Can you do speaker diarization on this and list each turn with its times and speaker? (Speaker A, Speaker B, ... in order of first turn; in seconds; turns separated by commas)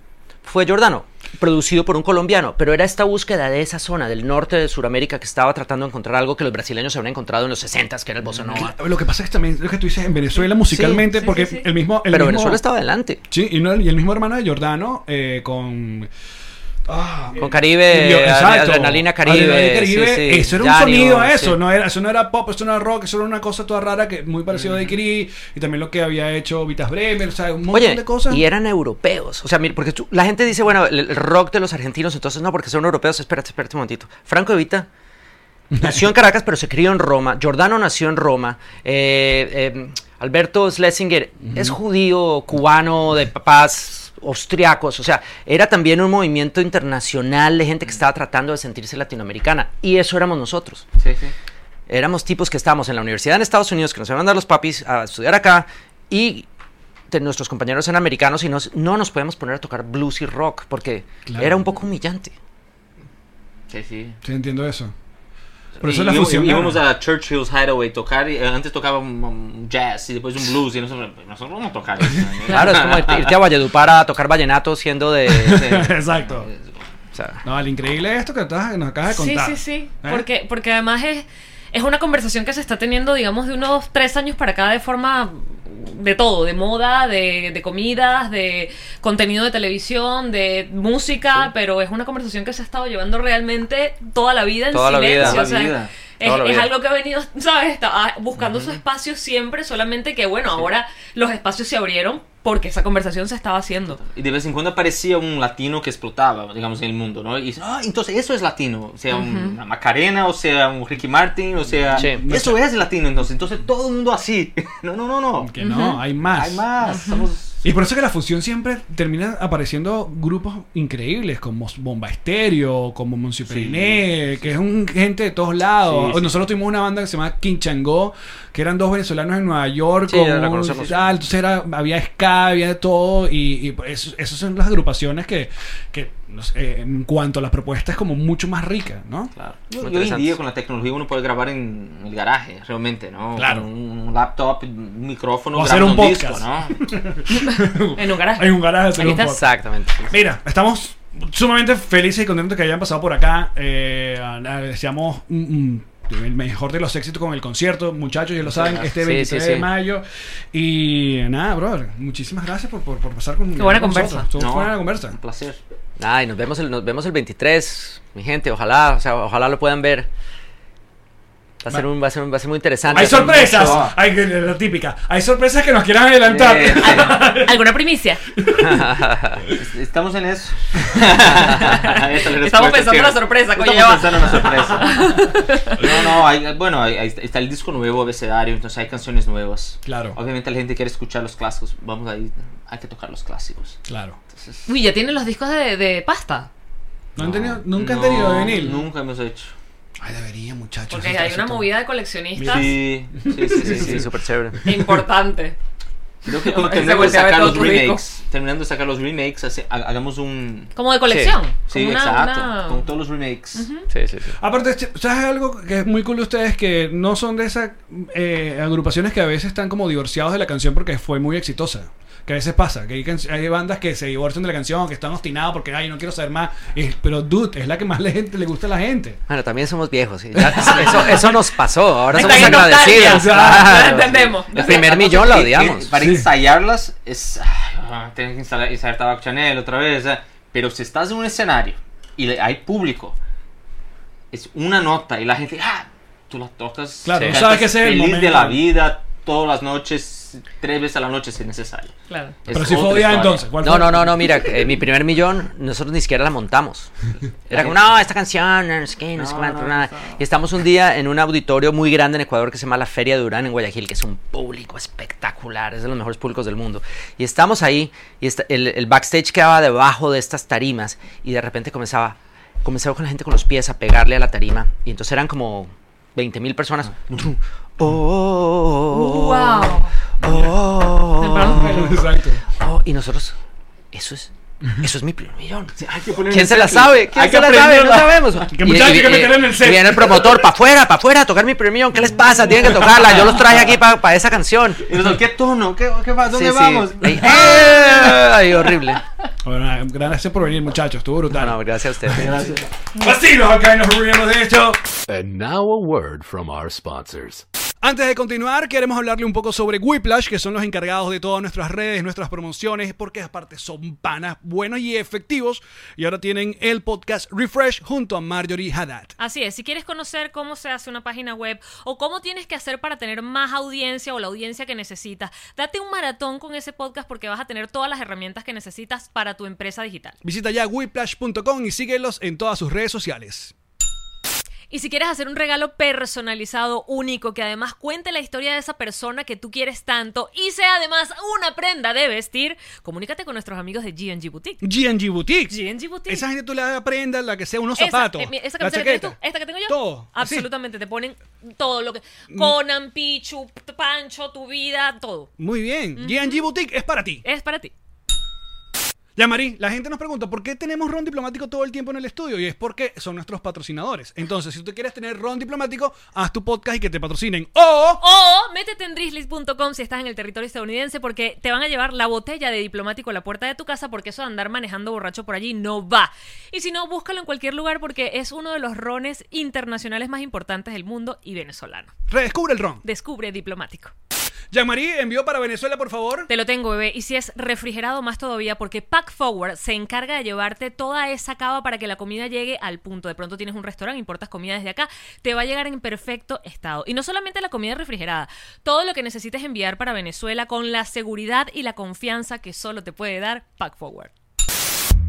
Speaker A: 0.4-8.8, Speaker B: 8.2-12.6, Speaker A: 10.7-11.1, Speaker C: 11.1-11.7, Speaker A: 12.1-13.2, Speaker B: 13.3-16.1, Speaker B: 16.9-28.4, Speaker A: 17.4-21.6, Speaker D: 24.6-24.9, Speaker A: 27.7-34.9, Speaker B: 35.7-36.1, Speaker A: 35.8-50.9, Speaker B: 41.5-41.8, Speaker D: 51.0-51.3, Speaker A: 51.9-56.5, Speaker A: 57.1-62.3, Speaker B: 61.3-61.7, Speaker D: 63.7-64.2, Speaker B: 64.2-64.9, Speaker D: 65.8-73.4, Speaker B: 65.8-66.8, Speaker A: 72.5-75.8, Speaker B: 75.3-76.5, Speaker D: 75.5-76.8, Speaker A: 77.1-77.4, Speaker B: 77.4-80.3, Speaker C: 79.1-104.0, Speaker A: 94.7-95.5, Speaker D: 95.2-95.9, Speaker A: 96.2-96.7, Speaker D: 98.4-98.8, Speaker D: 104.0-115.5, Speaker C: 109.1-109.5, Speaker B: 112.0-112.6, Speaker A: 112.0-112.3, Speaker B: 115.4-116.7, Speaker C: 115.6-116.0, Speaker D: 116.2-117.6, Speaker C: 116.9-117.2, Speaker B: 117.6-139.3, Speaker D: 123.5-124.5, Speaker D: 125.9-126.4, Speaker A: 130.1-130.9, Speaker D: 139.3-146.8, Speaker A: 139.8-140.4, Speaker B: 143.4-143.7, Speaker B: 145.5-149.4, Speaker C: 147.3-149.2, Speaker A: 149.0-150.0, Speaker B: 150.1-165.2, Speaker D: 158.5-158.9, Speaker A: 158.9-159.7, Speaker C: 163.6-164.3, Speaker D: 164.4-165.6, Speaker A: 166.0-170.1, Speaker A: 171.6-173.9, Speaker D: 172.9-173.9, Speaker B: 172.9-177.7, Speaker D: 176.2-177.2, Speaker C: 176.8-178.2, Speaker B: 178.4-179.0, Speaker A: 178.6-179.4, Speaker D: 179.5-193.8, Speaker C: 181.4-185.8, Speaker B: 189.8-190.2, Speaker B: 193.9-194.2, Speaker D: 194.3-194.7, Speaker C: 194.7-196.5, Speaker B: 197.2-198.9, Speaker A: 197.2-197.6, Speaker D: 197.7-199.5, Speaker C: 198.5-198.7, Speaker B: 200.0-201.7, Speaker C: 200.9-202.8, Speaker B: 202.3-205.0, Speaker D: 202.4-204.1, Speaker A: 203.5-204.6, Speaker C: 204.6-205.6, Speaker D: 206.2-210.7, Speaker C: 206.3-208.0, Speaker C: 210.8-212.8, Speaker A: 211.1-211.4, Speaker D: 211.7-213.7, Speaker C: 213.6-213.9, Speaker A: 213.9-214.4, Speaker B: 214.4-229.2, Speaker A: 229.3-235.9, Speaker B: 230.4-230.8, Speaker C: 232.1-234.8, Speaker B: 232.2-233.8, Speaker D: 234.5-243.2, Speaker B: 236.0-236.3, Speaker D: 244.3-251.9, Speaker B: 247.1-248.6, Speaker A: 247.1-247.4, Speaker C: 252.1-252.3, Speaker D: 252.4-253.5, Speaker B: 252.5-254.5, Speaker A: 253.6-256.9, Speaker A: 257.5-282.1, Speaker D: 257.5-257.9, Speaker D: 259.2-260.2, Speaker D: 276.9-277.2, Speaker C: 278.9-279.9, Speaker D: 280.2-280.5, Speaker C: 281.2-281.7, Speaker B: 281.4-282.4, Speaker A: 282.6-283.4, Speaker A: 283.9-285.8, Speaker D: 285.8-288.5, Speaker A: 286.3-294.9, Speaker B: 288.4-290.4, Speaker D: 293.0-293.7, Speaker D: 294.8-298.7, Speaker A: 296.3-299.0, Speaker B: 299.4-304.9, Speaker A: 301.3-302.3, Speaker D: 302.2-302.6, Speaker E: 305.1-307.4, Speaker B: 307.8-319.1, Speaker C: 319.2-330.2, Speaker B: 330.2-333.5, Speaker C: 334.7-344.6, Speaker B: 344.6-350.5, Speaker C: 345.5-346.2, Speaker C: 347.8-355.3, Speaker B: 352.3-352.6, Speaker B: 355.4-357.2, Speaker C: 356.0-356.4, Speaker C: 357.2-357.7, Speaker B: 359.2-368.0, Speaker C: 368.0-381.9, Speaker B: 382.1-382.8, Speaker C: 382.8-383.9, Speaker B: 384.5-386.3, Speaker C: 386.3-404.1